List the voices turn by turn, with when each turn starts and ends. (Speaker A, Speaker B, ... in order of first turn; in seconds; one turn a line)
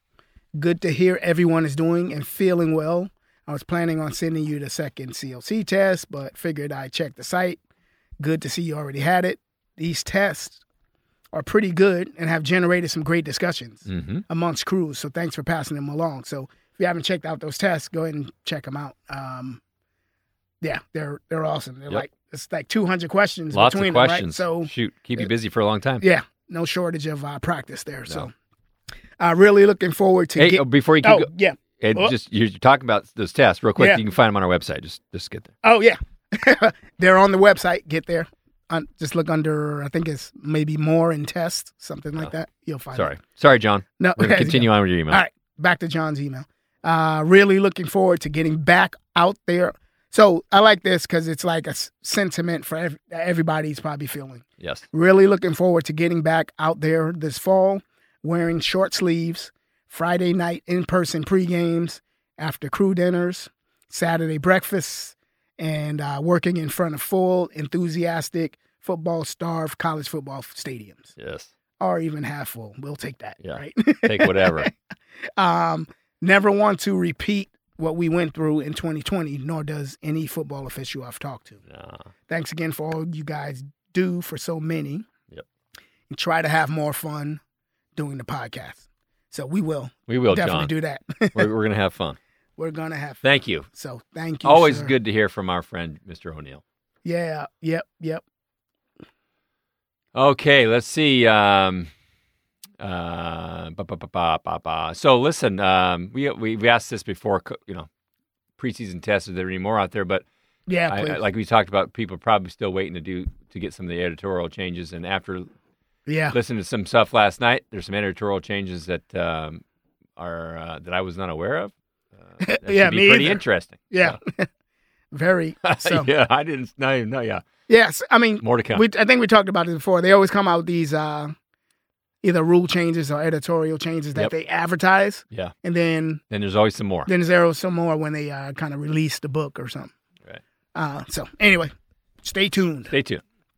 Speaker A: 0.5-7.6
Speaker A: 8.2-10.6
Speaker A: 11.3-19.6
Speaker B: 13.9-14.2
Speaker A: 20.6-25.3
Speaker B: 23.5-26.0
Speaker A: 26.0-28.3
Speaker A: 29.2-32.1
Speaker B: 30.4-35.5
Speaker A: 35.6-43.1
Speaker B: 42.9-45.2
Speaker A: 44.0-71.1
Speaker B: 54.6-54.9
Speaker B: 71.2-71.5
Speaker A: 71.8-74.7
Speaker B: 73.4-74.7
Speaker A: 75.4-81.6
Speaker B: 81.7-82.1
Speaker A: 82.3-85.1
Speaker A: 86.1-87.4
Speaker A: 88.0-91.5
Speaker B: 90.1-90.7
Speaker B: 91.3-92.2
Speaker A: 92.6-94.9
Speaker B: 93.2-93.7
Speaker B: 94.4-96.6
Speaker A: 97.0-98.2
Speaker B: 100.1-101.9
Speaker B: 102.8-107.9
Speaker B: 108.6-110.2
Speaker A: 110.7-111.2
Speaker B: 110.9-115.5
Speaker A: 116.1-116.3
Speaker B: 116.3-119.6
Speaker B: 120.2-121.7
Speaker B: 122.2-124.2
Speaker A: 122.4-124.5
Speaker A: 125.1-126.1
Speaker B: 125.6-127.4
Speaker A: 127.7-131.3
Speaker B: 128.4-128.8
Speaker A: 132.2-136.2
Speaker B: 136.3-137.1
Speaker A: 137.1-139.9
Speaker A: 140.8-142.9
Speaker B: 142.9-143.2